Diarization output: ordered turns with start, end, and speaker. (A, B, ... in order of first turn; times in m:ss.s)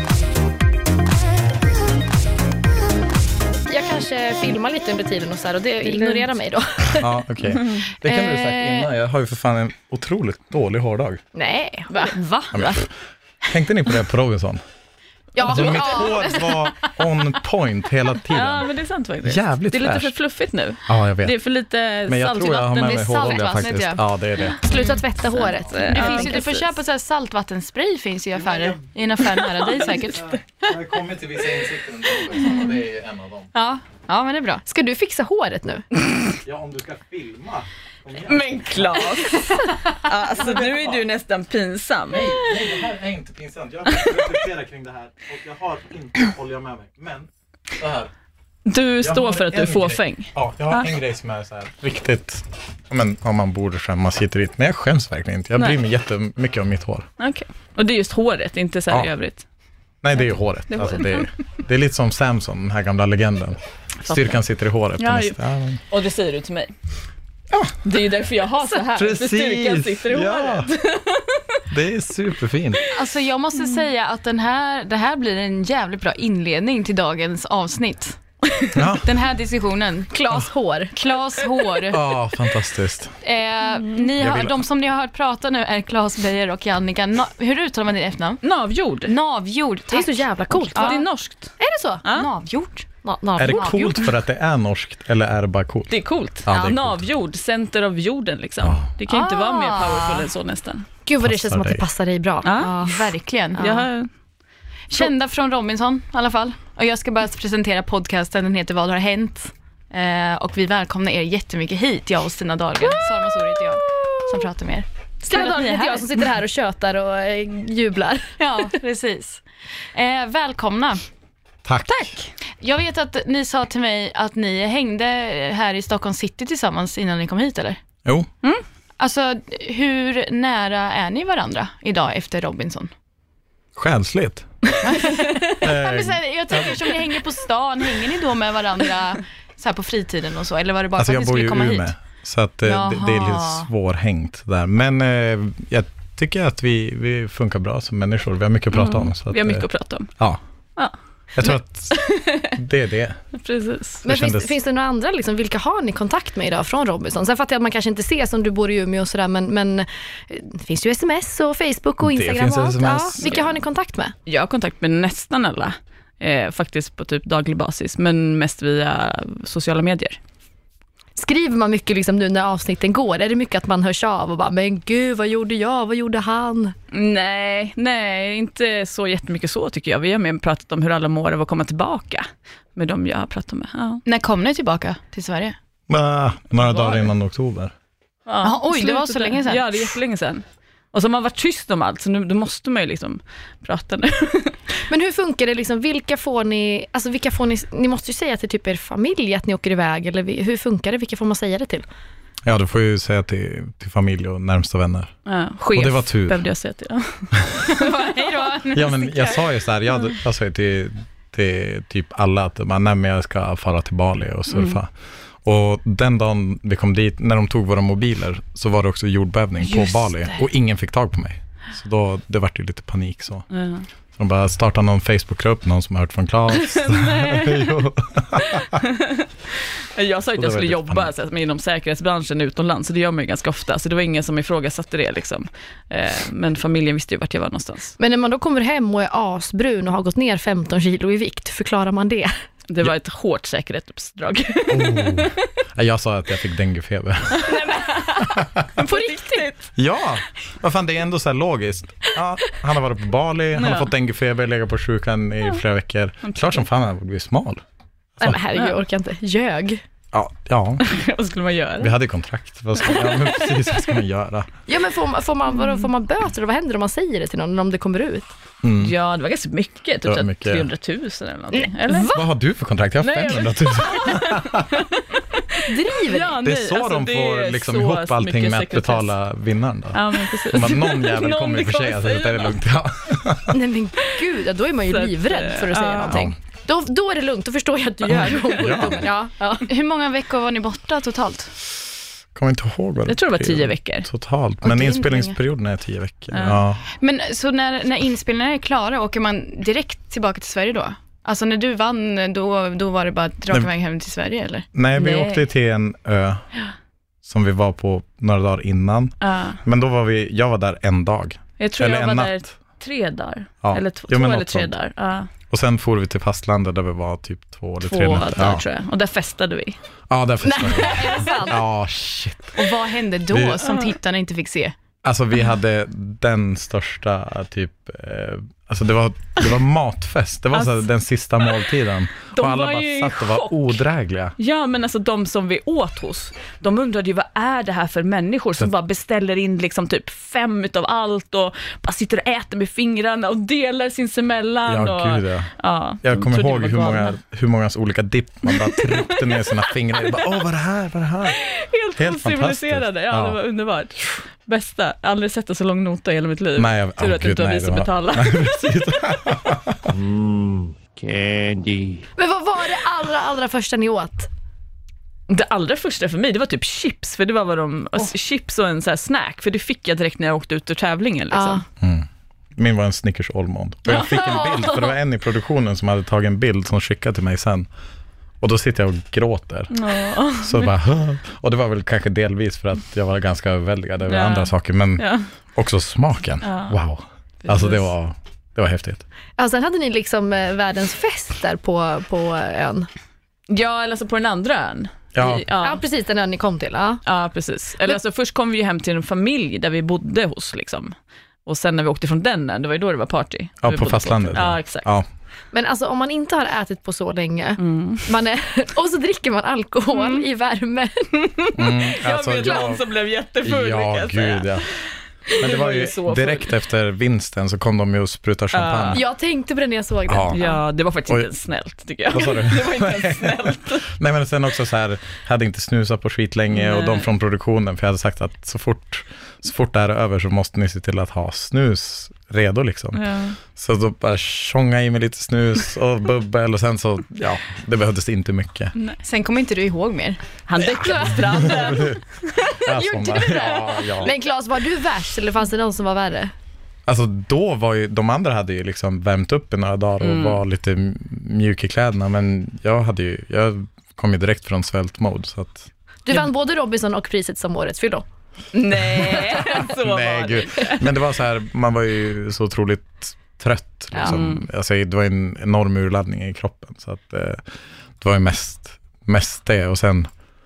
0:03.7-0:07.1 A
0:06.9-0:11.2 B
0:08.1-0:08.6 A
0:11.3-0:12.1 A
0:12.1-0:12.8 C
0:12.5-0:12.9 B
0:13.4-0:14.6 B
0:15.3-0:16.5 A
0:15.4-0:18.7 B
0:18.3-0:23.7 C
0:19.2-0:20.1 B
0:20.9-0:21.4 B
0:22.0-0:24.6 B
0:23.2-0:24.0 D
0:24.6-0:26.6 A
0:25.6-0:26.6 C
0:25.9-0:30.3 D
0:28.3-0:28.8 B
0:29.6-0:33.5 B
0:33.5-0:34.6 D
0:34.6-0:35.8 A
0:36.4-0:39.1 B
0:38.2-0:42.5 C
0:40.4-0:41.0 B
0:42.1-0:48.1 B
0:48.7-0:50.9 C
0:49.0-0:57.1 B
0:57.2-0:59.4 C
1:00.0-1:05.8 B
1:00.7-1:01.2 C
1:04.0-1:04.4 C
1:05.0-1:05.4 C
1:05.9-1:06.7 C
1:07.8-1:11.6 C
1:08.9-1:10.7 B
1:11.7-1:12.8 B
1:12.9-1:20.1 D
1:18.7-1:19.1 B
1:20.1-1:20.9 A
1:20.9-1:22.0 D
1:21.9-1:23.1 B
1:23.2-1:28.4 D
1:24.2-1:24.5 B
1:28.4-1:29.1 C
1:29.0-1:31.0 D
1:29.9-1:31.0 A
1:30.7-1:32.3 C
1:31.6-1:32.0 A
1:32.1-1:32.9 D
1:33.0-1:34.1 A
1:33.4-1:37.1 B
1:35.9-1:40.8 C
1:38.6-1:38.9 B
1:39.1-1:39.7 A
1:39.8-1:40.2 D
1:41.0-1:43.8 A
1:41.2-1:41.8 B
1:42.4-1:42.8 C
1:42.6-1:43.6 D
1:43.6-1:44.1 C
1:44.9-1:56.0 D
1:55.2-1:58.3 A
1:58.4-1:59.4 D
1:59.9-2:01.0 D
2:01.6-2:02.1 B
2:01.9-2:02.3 C
2:02.6-2:07.8 D
2:09.0-2:12.9 D
2:13.8-2:14.5 B
2:14.8-2:21.9 D
2:15.0-2:15.4 C
2:15.6-2:16.9 B
2:21.0-2:30.4 B
2:22.6-2:23.7 D
2:28.7-2:30.1 C
2:31.3-2:33.2 B
2:31.4-2:32.5 C
2:33.4-2:34.0 C
2:34.0-2:34.5 B
2:34.0-2:44.1 A
2:42.0-2:43.3 B
2:44.2-2:50.2 C
2:51.2-2:56.7 A
2:56.9-3:04.0 C
3:04.0-3:05.6 D
3:05.9-3:07.7 B
3:06.6-3:07.0 C
3:08.2-3:14.6 C
3:08.4-3:09.9 D
3:14.9-3:21.8 A
3:22.4-3:25.1 B
3:25.2-3:28.2 C
3:25.7-3:26.4 B
3:27.8-3:29.4 D
3:28.7-3:34.9 B
3:34.5-3:34.8 C
3:35.4-3:43.4 B
3:43.5-3:43.8 C
3:44.2-3:48.8 B
3:46.7-3:47.7 C
3:48.4-3:57.9 C
3:50.4-3:51.1 B
3:58.0-4:02.3 A
4:02.7-4:05.3 C
4:04.7-4:07.6 B
4:07.4-4:09.6 C
4:08.8-4:09.4 A
4:09.8-4:17.6 B
4:13.6-4:13.9 C
4:16.2-4:16.6 C
4:18.2-4:19.8 A
4:20.1-4:20.8 B
4:20.8-4:21.9 C
4:21.8-4:24.5 B
4:22.8-4:23.5 C
4:24.7-4:28.3 A
4:28.6-4:28.9 B
4:28.8-4:32.1 C
4:30.0-4:30.7 B
4:31.6-4:32.2 A
4:32.1-4:34.7 B
4:33.0-4:39.1 C
4:35.6-4:36.4 A
4:36.4-4:43.6 B
4:39.9-4:42.6 C
4:43.5-4:49.6 A
4:44.9-4:46.2 C
4:46.1-4:46.3 B
4:48.0-4:49.1 B
4:49.6-4:51.5 D
4:52.3-4:56.8 B
4:53.1-4:54.1 C
4:54.6-4:55.3 D
4:56.3-4:56.6 C
4:57.0-5:04.7 D
5:04.7-5:06.4 B
5:05.0-5:05.4 C
5:07.2-5:12.5 B
5:09.2-5:09.6 C
5:11.6-5:15.3 C
5:13.6-5:14.7 B
5:15.5-5:18.6 B
5:17.8-5:19.8 C
5:20.1-5:22.6 B
5:20.6-5:21.6 D
5:20.9-5:21.3 C
5:22.5-5:24.7 D
5:23.3-5:23.7 B
5:25.0-5:34.3 B
5:30.5-5:30.8 C
5:32.3-5:33.8 C
5:34.4-5:47.2 C
5:44.6-5:53.4 B
5:48.5-5:49.6 C
5:51.4-5:58.4 C
5:56.6-5:59.9 B
5:59.9-6:02.0 E
6:02.2-6:04.3 A
6:05.3-6:11.6 C
6:11.3-6:11.6 A
6:11.8-6:17.7 B
6:13.9-6:14.8 C
6:18.4-6:19.7 B
6:19.7-6:20.7 C
6:20.3-6:29.0 B
6:24.1-6:25.3 C
6:26.4-6:26.8 C
6:27.4-6:27.9 C
6:29.4-6:32.9 A
6:33.5-6:35.8 C
6:35.1-6:35.5 B
6:35.6-6:37.0 A
6:37.0-6:40.9 C
6:41.4-6:44.9 C
6:43.6-6:45.0 B
6:45.5-6:51.1 A
6:47.6-6:48.0 C
6:49.9-6:50.2 C
6:51.4-6:54.6 C
6:51.6-6:52.8 B
6:53.4-6:54.7 B
6:55.3-6:59.0 B
6:55.3-6:56.5 C
6:58.5-6:59.0 C
6:58.9-7:00.6 A
7:00.1-7:00.4 B
7:00.3-7:03.9 C
7:02.1-7:18.7 B
7:06.5-7:07.1 C
7:12.9-7:13.4 C
7:19.0-7:20.2 D
7:20.5-7:22.0 C
7:20.6-7:22.0 B
7:22.6-7:24.2 B
7:22.7-7:23.9 D
7:24.0-7:26.3 A
7:26.8-7:35.7 B
7:30.0-7:30.4 C
7:36.0-7:38.0 A
7:38.5-7:40.8 C
7:39.0-7:47.4 B
7:39.0-7:39.6 A
7:43.9-7:44.4 C
7:48.0-7:50.1 B